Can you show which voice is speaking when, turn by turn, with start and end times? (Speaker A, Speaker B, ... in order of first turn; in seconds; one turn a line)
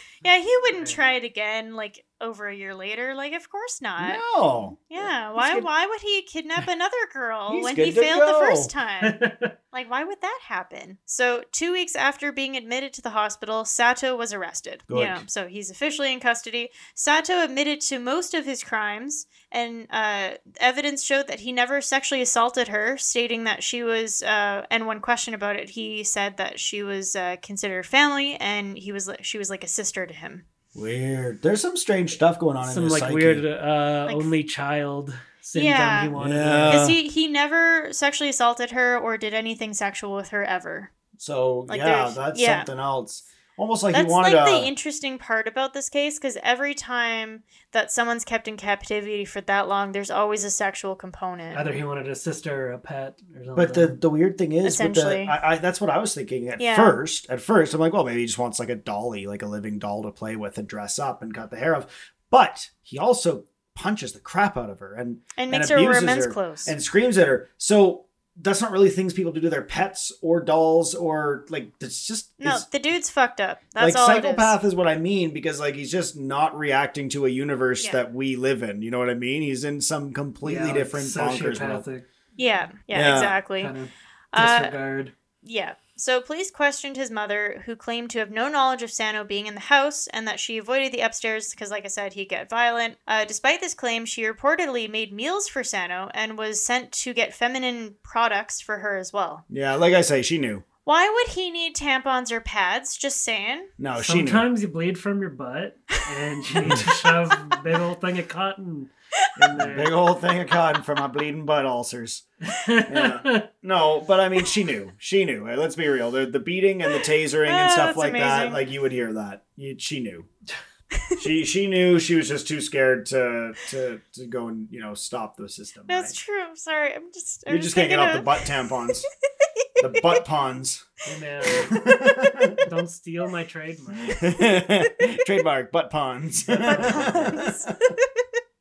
Speaker A: 0.2-4.2
Speaker B: 0.7-1.0
Speaker C: 4.0-5.7
Speaker A: 4.9-30.4
Speaker C: 7.5-8.7
Speaker B: 9.0-9.5
Speaker C: 14.9-15.2
Speaker C: 30.7-33.4
Speaker B: 32.6-36.9
Speaker A: 34.0-34.3
Speaker A: 35.5-36.1
Speaker C: 36.2-37.0
Speaker A: 36.7-40.9
Speaker C: 41.2-44.7
Speaker A: 41.7-42.7
Speaker A: 43.9-51.6
Speaker B: 51.5-54.0
Speaker C: 53.5-72.7
Speaker A: 54.6-55.3
Speaker A: 56.6-57.0
Speaker A: 65.4-66.7
Speaker A: 72.4-74.5
Speaker C: 73.8-81.8
Speaker B: 80.4-82.1
Speaker A: 82.4-83.7
Speaker C: 82.9-83.4
Speaker B: 83.6-85.1
Speaker A: 84.3-84.7
Speaker A: 85.4-99.4
Speaker C: 99.5-100.6
Speaker A: 100.8-103.7
Speaker C: 103.8-104.5
Speaker B: 104.0-110.0
Speaker C: 106.6-106.8
Speaker C: 109.5-112.2
Speaker B: 112.5-113.5
Speaker C: 112.8-120.3
Speaker A: 117.5-118.6
Speaker C: 121.2-126.1
Speaker A: 125.9-128.8
Speaker C: 127.5-129.1
Speaker A: 129.6-130.2
Speaker C: 129.8-130.9
Speaker B: 131.1-131.8
Speaker C: 131.4-132.7
Speaker B: 132.6-134.3
Speaker C: 134.1-137.7
Speaker A: 136.6-138.4
Speaker B: 136.7-137.3